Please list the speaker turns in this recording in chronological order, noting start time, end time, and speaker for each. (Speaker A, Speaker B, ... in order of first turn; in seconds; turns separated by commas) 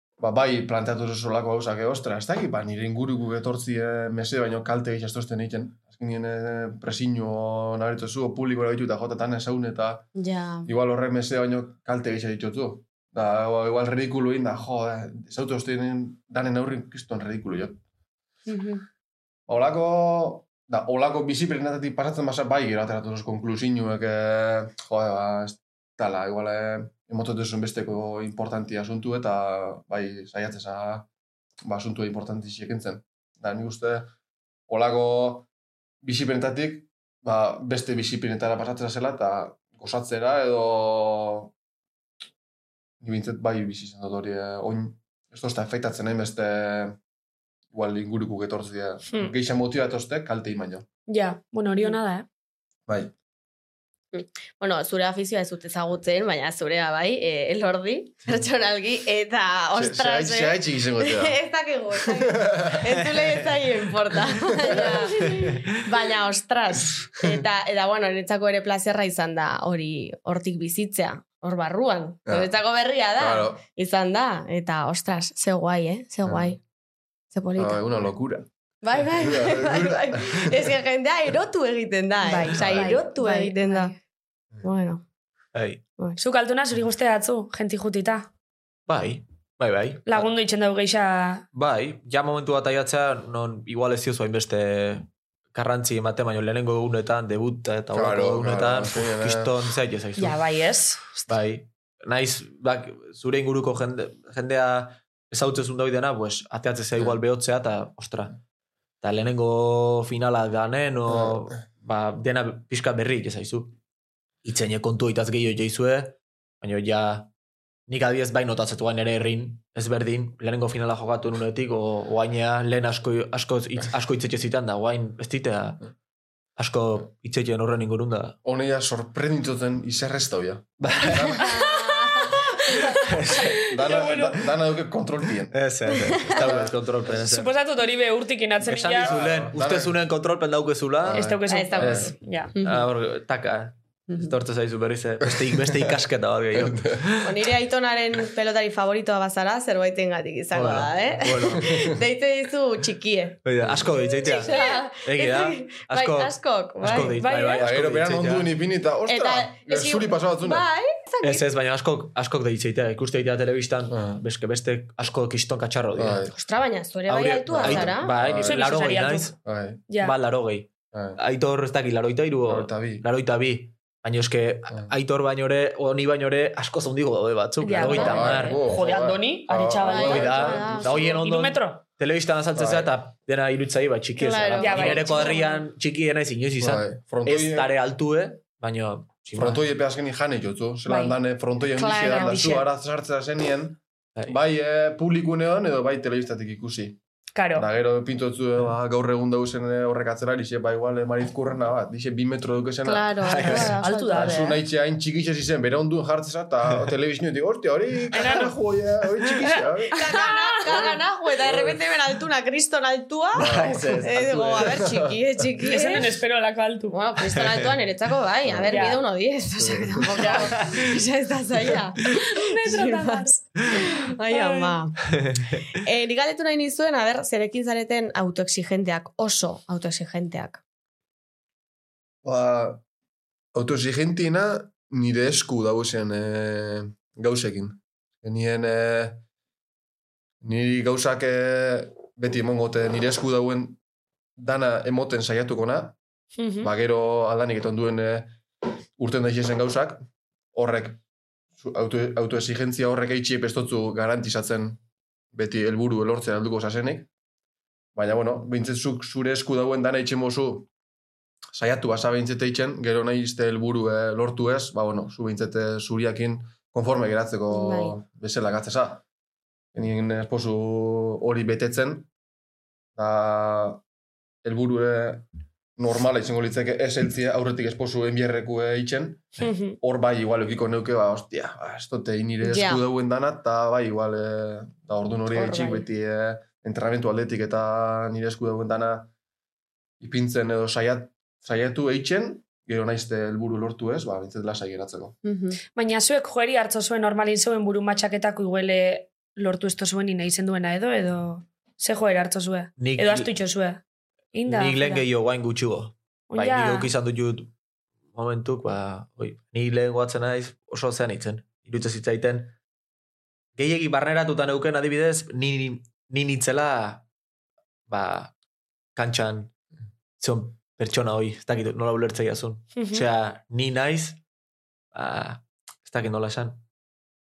Speaker A: 0.2-10.1, Speaker B: 10.2-10.7, Speaker A: 10.7-17.8, Speaker B: 18.5-18.8, Speaker A: 19.5-31.1, Speaker A: 31.6-34.1, Speaker A: 34.7-35.5, Speaker A: 36.0-41.5, Speaker A: 43.0-47.0, Speaker A: 47.7-50.9, Speaker C: 51.1-52.3, Speaker A: 52.9-53.1, Speaker B: 54.1-76.6, Speaker A: 59.7-61.4, Speaker A: 62.0-62.8, Speaker A: 64.7-65.3, Speaker A: 73.2-73.6, Speaker A: 76.2-76.6, Speaker B: 77.3-77.8, Speaker A: 77.6-78.5, Speaker B: 78.8-83.9, Speaker A: 79.2-80.6, Speaker C: 82.2-84.0, Speaker B: 84.6-85.0, Speaker D: 85.5-85.8, Speaker C: 86.2-88.3, Speaker D: 88.9-90.3, Speaker C: 90.1-91.4, Speaker D: 91.5-100.4, Speaker A: 97.9-99.6, Speaker C: 100.2-101.3, Speaker D: 101.3-108.3, Speaker D: 109.0-113.8, Speaker A: 111.1-111.4, Speaker D: 114.5-117.3, Speaker D: 117.9-125.8, Speaker D: 126.6-128.4, Speaker A: 128.4-131.6, Speaker D: 130.8-131.6, Speaker B: 131.4-132.8, Speaker C: 132.7-134.4, Speaker D: 133.0-133.6, Speaker A: 133.3-135.6, Speaker D: 135.5-137.5, Speaker A: 136.2-136.8, Speaker C: 137.2-139.2, Speaker D: 138.6-141.3, Speaker A: 139.0-139.9, Speaker A: 141.0-142.1, Speaker C: 141.2-142.5, Speaker B: 141.5-142.9, Speaker D: 142.6-147.3, Speaker B: 144.1-144.3, Speaker A: 145.4-145.9, Speaker A: 146.5-147.1, Speaker B: 147.2-157.2, Speaker D: 150.5-151.9, Speaker A: 151.6-151.9, Speaker D: 153.4-158.6, Speaker C: 154.5-154.8, Speaker C: 157.2-157.7, Speaker A: 157.6-160.7, Speaker B: 159.1-161.5, Speaker D: 161.2-166.2, Speaker A: 163.9-164.2, Speaker A: 166.0-166.3, Speaker B: 166.3-168.1, Speaker D: 167.1-169.4, Speaker A: 167.5-168.6, Speaker C: 168.4-169.3, Speaker A: 169.4-169.8, Speaker C: 169.9-170.1, Speaker D: 170.0-178.7, Speaker A: 170.9-171.2, Speaker A: 172.5-173.1, Speaker C: 177.6-181.8, Speaker A: 177.8-181.1, Speaker B: 179.8-181.2, Speaker D: 180.0-189.6, Speaker A: 182.6-182.9, Speaker B: 184.2-185.4, Speaker C: 184.6-185.6, Speaker A: 186.6-187.7, Speaker A: 189.4-197.0, Speaker C: 190.9-191.2, Speaker B: 191.8-192.6, Speaker C: 191.8-192.6, Speaker C: 197.3-197.7, Speaker A: 197.6-210.1, Speaker B: 202.8-204.6, Speaker D: 203.2-203.8, Speaker C: 203.8-204.6, Speaker C: 208.1-208.5, Speaker C: 209.4-210.9, Speaker B: 209.9-216.1, Speaker A: 211.4-211.8, Speaker A: 213.4-214.1, Speaker D: 213.4-214.9, Speaker A: 214.6-215.2, Speaker C: 215.6-217.0, Speaker B: 216.9-225.1, Speaker D: 217.4-217.7, Speaker A: 218.5-218.8, Speaker C: 218.7-219.0, Speaker A: 219.6-220.3, Speaker C: 222.1-223.7, Speaker C: 224.3-224.8, Speaker D: 225.1-225.7, Speaker B: 225.7-230.6, Speaker A: 232.2-232.8, Speaker A: 233.5-239.2, Speaker A: 240.4-243.8, Speaker A: 244.4-246.0, Speaker C: 246.4-246.7, Speaker A: 246.6-248.4, Speaker A: 249.0-251.0, Speaker A: 251.6-254.8, Speaker A: 255.3-257.1, Speaker A: 257.9-260.7, Speaker A: 261.5-269.0, Speaker B: 267.5-268.0, Speaker A: 269.7-272.1, Speaker A: 273.0-273.8, Speaker A: 274.4-275.2, Speaker A: 275.8-289.1, Speaker C: 279.4-279.8, Speaker B: 282.4-282.9, Speaker B: 285.3-285.9, Speaker A: 290.0-295.2, Speaker B: 295.2-295.6, Speaker C: 295.8-303.8, Speaker D: 302.8-303.3, Speaker C: 304.3-305.0, Speaker D: 304.5-307.5, Speaker C: 306.3-306.9, Speaker D: 308.1-312.5, Speaker D: 313.6-317.0, Speaker D: 317.9-318.3, Speaker D: 318.9-319.5, Speaker D: 320.2-324.2, Speaker C: 322.8-323.1, Speaker D: 324.9-326.6